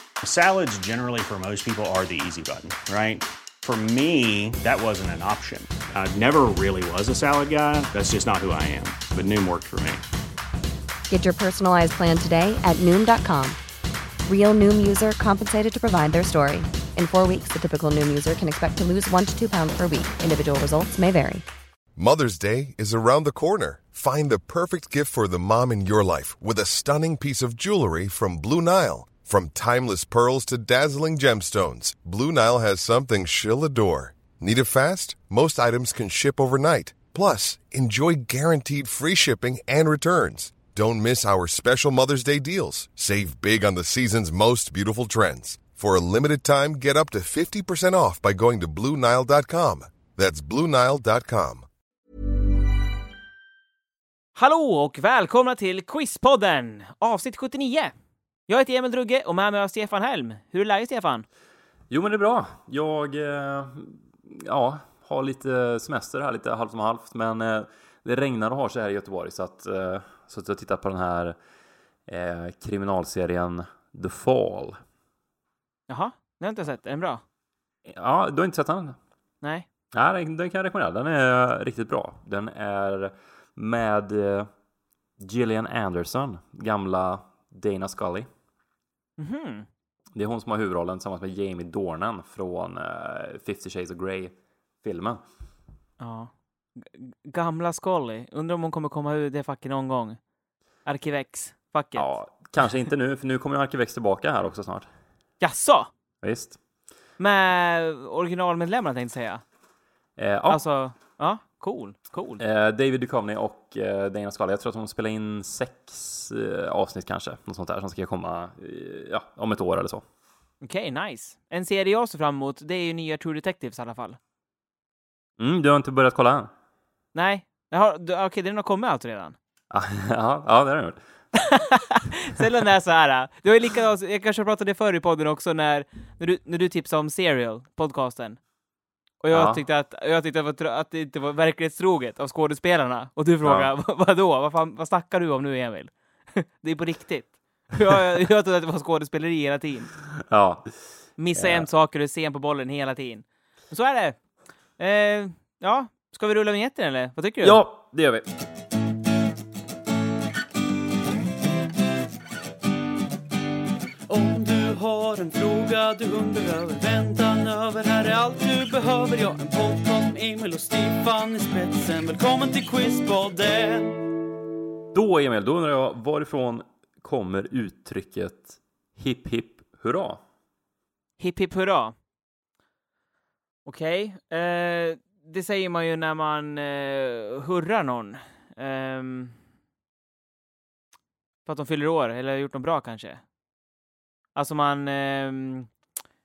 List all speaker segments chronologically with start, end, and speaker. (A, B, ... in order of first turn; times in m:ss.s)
0:00.2-0:10.0 A
0:11.1-0:13.6 B
0:14.3-0:21.4 B
0:22.0-0:51.6 C
0:54.4-0:57.9 D
0:58.5-1:01.2 D
1:01.9-1:11.4 E
1:12.1-1:14.8 E
1:15.9-1:17.2 D
1:17.8-1:19.0 E
1:19.9-1:24.5 E
1:25.2-1:28.3 E
1:29.2-1:29.7 D
1:30.1-1:35.2 E
1:36.0-1:40.2 D
1:40.8-1:42.1 D
1:42.0-1:44.9 E
1:45.4-1:45.9 D
1:46.2-1:46.6 E
1:47.2-1:49.4 D
1:50.2-1:50.6 E
1:50.5-1:52.4 D
1:52.4-2:00.0 E
2:00.6-2:04.2 D
2:05.4-2:06.5 E
2:07.1-2:09.4 D
2:09.7-2:11.0 E
2:11.4-2:18.4 D
2:19.2-2:29.9 D
2:19.3-2:19.6 E
2:23.4-2:23.7 E
2:30.3-2:30.7 E
2:31.2-2:34.2 D
2:31.3-2:31.7 E
2:34.8-2:37.6 D
2:37.4-2:38.2 E
2:44.1-2:54.0 F
2:54.9-3:00.2 E
3:01.2-3:01.9 D
3:03.6-3:09.4 D
3:11.4-3:13.2 D
3:14.3-3:15.7 D